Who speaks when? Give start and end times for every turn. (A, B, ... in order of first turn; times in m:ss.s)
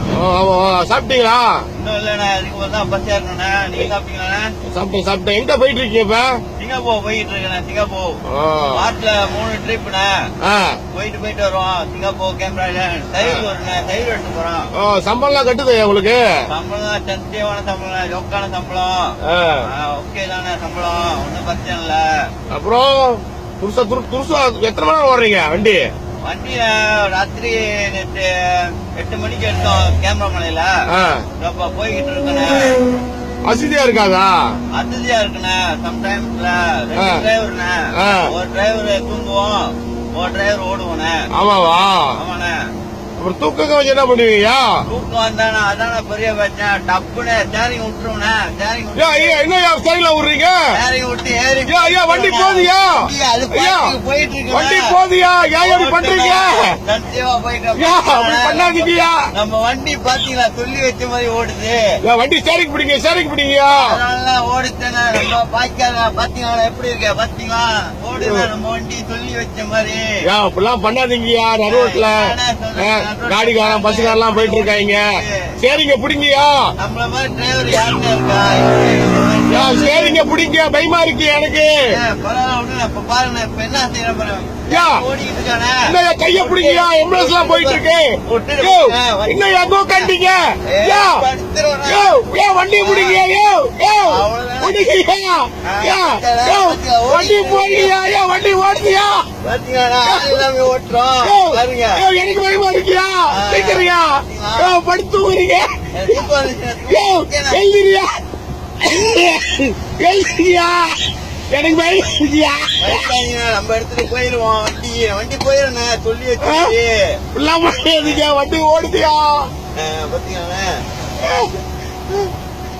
0:00.1-0:01.6 A
0:01.7-0:04.5 B
0:04.7-0:06.4 A
0:06.6-0:08.2 B
0:08.3-0:08.8 A
0:08.7-0:10.3 B
0:10.4-0:10.8 A
0:10.9-0:14.7 B
0:14.8-0:16.2 A
0:16.5-0:22.3 B
0:19.2-0:19.6 A
0:22.5-0:25.8 A
0:26.2-0:30.8 B
0:30.9-0:31.2 A
0:31.4-0:32.8 B
0:33.4-0:34.4 A
0:34.7-0:41.2 B
0:37.0-0:37.2 A
0:38.0-0:38.3 A
0:41.3-0:42.1 A
0:42.1-0:42.6 B
0:43.2-0:44.7 A
0:44.8-0:49.4 B
0:49.0-0:50.6 A
0:50.7-0:55.0 B
0:51.7-0:53.0 A
0:53.5-0:53.9 A
0:54.5-0:56.8 A
0:55.6-1:01.8 B
0:57.8-0:59.2 A
1:02.0-1:03.8 A
1:03.7-1:10.1 B
1:08.2-1:08.5 A
1:10.2-1:12.2 A
1:11.7-1:15.5 B
1:12.8-1:15.1 A
1:15.6-1:16.6 A
1:16.8-1:20.2 B
1:19.5-1:21.8 A
1:21.9-1:30.1 B
1:24.7-1:25.0 A
1:25.8-1:31.2 A
1:30.7-1:32.2 B
1:31.9-1:39.2 A
1:32.8-1:33.2 B
1:34.0-1:34.8 B
1:35.6-1:37.9 B
1:39.4-1:42.0 B
1:40.0-1:40.4 A
1:41.2-1:46.2 A
1:43.3-1:44.7 B
1:45.9-1:47.6 B
1:46.9-1:48.1 A
1:48.8-1:53.1 A
1:52.8-1:57.2 B
1:56.4-1:56.7 A
1:57.3-1:59.5 A
1:59.7-2:00.8 B
2:01.2-2:01.5 A